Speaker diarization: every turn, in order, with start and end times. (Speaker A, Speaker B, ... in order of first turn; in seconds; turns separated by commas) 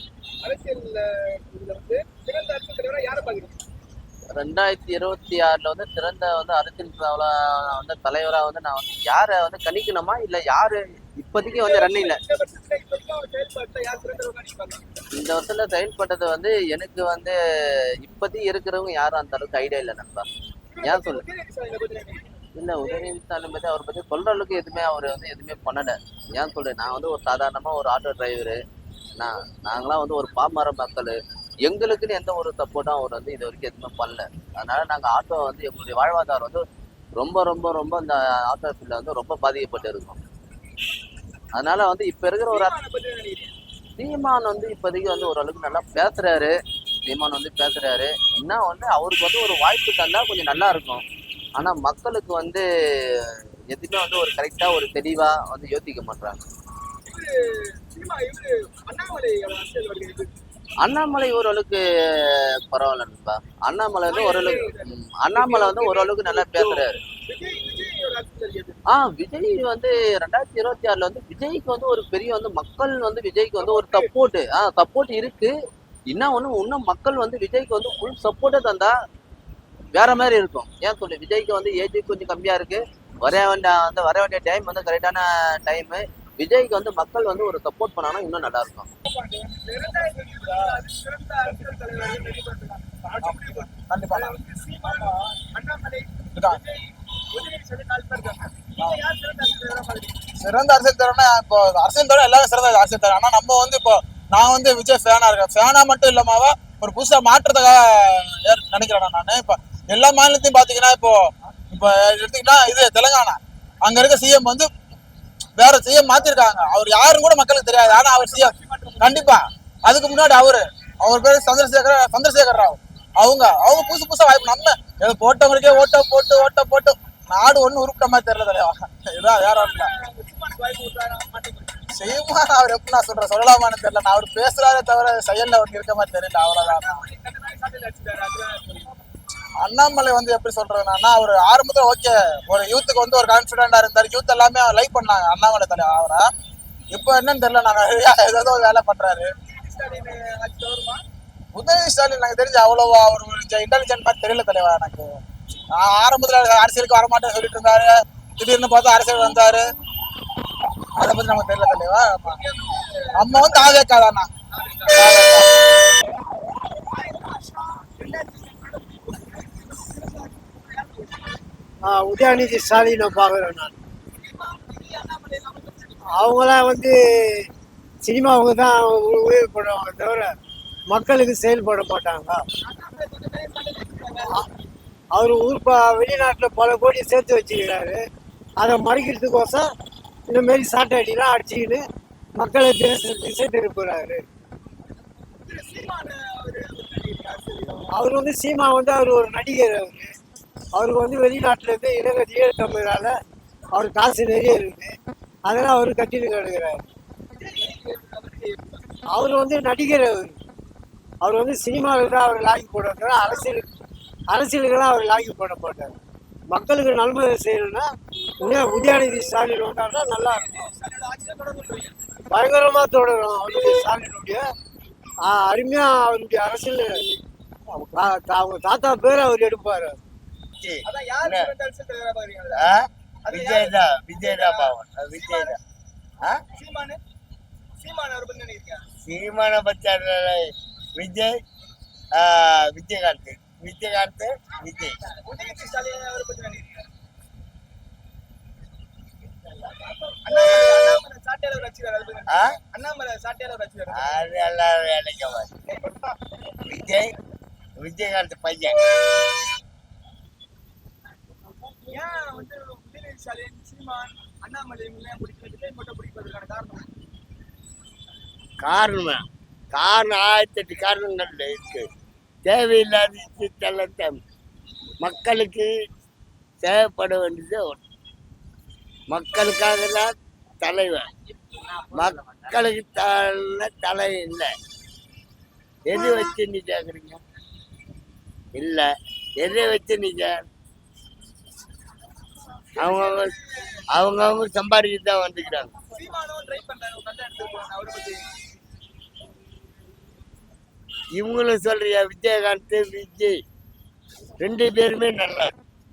Speaker A: 0.4-3.6, Speaker B: 4.3-12.2, Speaker A: 11.5-15.0, Speaker B: 15.1-17.4, Speaker B: 18.0-20.2, Speaker A: 20.7-22.3, Speaker B: 20.8-21.2, Speaker B: 22.6-28.6, Speaker A: 22.8-23.1, Speaker B: 29.2-36.6, Speaker B: 37.2-40.2, Speaker B: 41.5-42.8, Speaker A: 42.5-43.5, Speaker B: 44.0-46.5, Speaker B: 47.0-51.0, Speaker B: 51.6-52.6, Speaker B: 53.2-56.4, Speaker A: 57.0-60.3, Speaker B: 60.8-67.0, Speaker A: 64.0-68.8, Speaker B: 68.9-75.5, Speaker A: 73.6-74.1, Speaker B: 76.1-78.9, Speaker B: 79.9-88.9, Speaker A: 89.1-100.2, Speaker C: 93.2-94.3, Speaker C: 96.3-96.6, Speaker C: 100.4-114.7, Speaker C: 115.6-129.9, Speaker A: 117.8-119.4, Speaker A: 129.5-131.8, Speaker C: 131.9-137.0, Speaker A: 136.6-138.9, Speaker C: 139.6-146.3, Speaker C: 146.9-149.3, Speaker A: 149.5-151.0, Speaker C: 151.5-155.2, Speaker C: 155.7-159.7, Speaker C: 161.0-162.4, Speaker A: 162.3-163.7, Speaker C: 163.2-164.3, Speaker A: 164.5-165.3, Speaker C: 164.9-165.6, Speaker A: 166.7-171.3, Speaker D: 171.8-173.7, Speaker A: 174.2-176.0, Speaker D: 176.1-177.5, Speaker D: 178.0-180.3, Speaker D: 180.9-182.4, Speaker A: 182.6-184.3, Speaker D: 185.1-188.0, Speaker D: 188.6-189.7, Speaker D: 190.3-191.8, Speaker D: 192.4-194.2, Speaker A: 195.4-197.9, Speaker D: 197.9-200.1, Speaker D: 200.7-203.2, Speaker D: 203.7-204.9, Speaker D: 205.4-206.8, Speaker A: 207.4-209.0, Speaker D: 209.1-210.4, Speaker D: 211.2-213.7, Speaker D: 214.3-216.0, Speaker D: 216.5-217.8, Speaker D: 218.4-220.6, Speaker A: 220.4-221.9, Speaker D: 222.3-224.4, Speaker D: 225.2-227.1, Speaker D: 227.7-230.0, Speaker E: 230.6-231.5, Speaker A: 230.8-232.7, Speaker E: 232.6-235.6, Speaker A: 233.2-235.6, Speaker A: 236.6-237.0, Speaker A: 237.8-238.8, Speaker E: 239.0-240.4, Speaker E: 240.9-241.3, Speaker E: 242.2-244.9, Speaker A: 245.2-246.8, Speaker A: 249.7-254.2, Speaker E: 253.9-255.5, Speaker A: 255.7-256.2, Speaker E: 256.6-257.1, Speaker E: 257.8-258.8, Speaker A: 261.9-266.9, Speaker E: 268.6-269.2, Speaker E: 269.7-271.9, Speaker E: 272.4-274.2, Speaker E: 275.0-275.7, Speaker E: 276.6-277.8, Speaker E: 279.1-280.1, Speaker E: 280.6-281.1, Speaker E: 281.9-284.5, Speaker E: 285.9-287.2, Speaker E: 288.5-290.4, Speaker E: 292.8-293.4, Speaker A: 292.8-293.8, Speaker E: 293.9-295.7, Speaker A: 295.9-298.2, Speaker E: 301.1-303.4, Speaker E: 304.4-305.5